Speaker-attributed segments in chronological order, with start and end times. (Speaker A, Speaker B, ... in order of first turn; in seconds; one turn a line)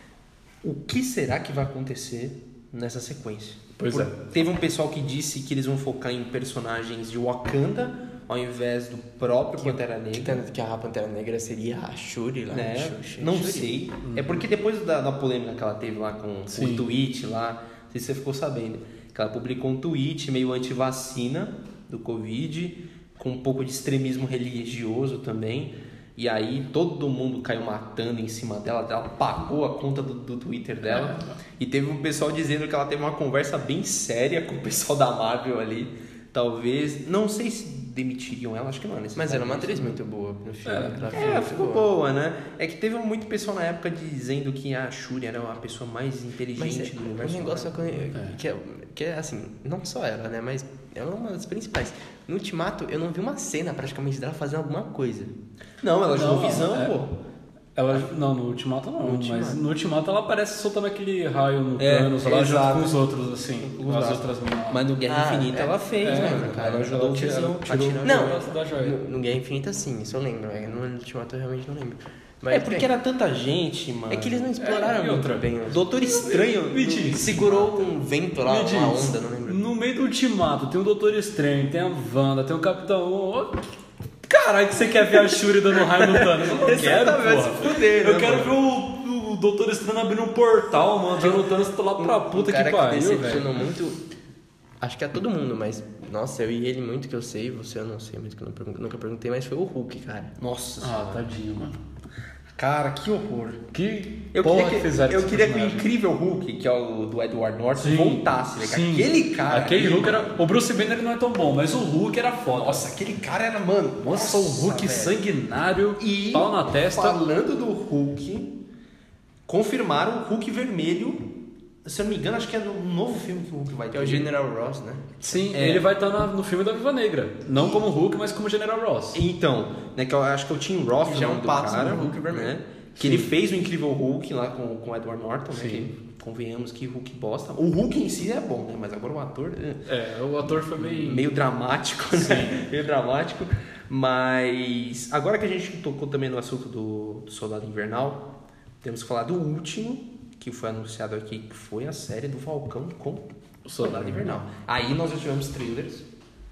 Speaker A: 0.6-10.4
Speaker B: 3.8-4.2
Speaker C: 9.6-13.8
Speaker A: 12.5-40.0
Speaker B: 14.0-14.4
Speaker B: 16.5-16.9
Speaker B: 30.9-31.3
Speaker C: 39.1-41.9
Speaker B: 40.6-41.4
Speaker A: 41.1-48.1
Speaker C: 46.5-55.3
Speaker A: 55.8-57.1
Speaker B: 56.1-57.1
Speaker B: 57.8-64.8
Speaker C: 59.0-59.6
Speaker A: 61.8-63.0
Speaker A: 63.6-68.5
Speaker C: 65.0-67.0
Speaker B: 66.0-69.0
Speaker C: 68.0-72.9
Speaker A: 72.5-74.5
Speaker C: 74.1-75.8
Speaker B: 74.6-77.4
Speaker A: 75.7-77.9
Speaker C: 77.1-79.6
Speaker B: 78.4-83.7
Speaker B: 84.2-93.5
Speaker A: 85.9-88.5
Speaker C: 92.0-94.0
Speaker C: 94.8-100.3
Speaker A: 100.4-101.3
Speaker B: 100.8-101.8
Speaker A: 102.5-103.6
Speaker B: 103.7-105.8
Speaker A: 104.3-110.3
Speaker B: 107.8-112.9
Speaker A: 112.6-115.2
Speaker B: 114.0-117.2
Speaker A: 116.0-118.6
Speaker A: 119.5-121.3
Speaker A: 121.8-124.3
Speaker C: 123.9-125.2
Speaker B: 125.2-129.2
Speaker A: 125.3-125.9
Speaker A: 129.1-139.8
Speaker C: 131.0-132.5
Speaker B: 133.0-133.3
Speaker B: 135.5-135.9
Speaker B: 139.9-141.4
Speaker A: 140.4-156.0
Speaker B: 142.2-142.6
Speaker B: 153.7-154.3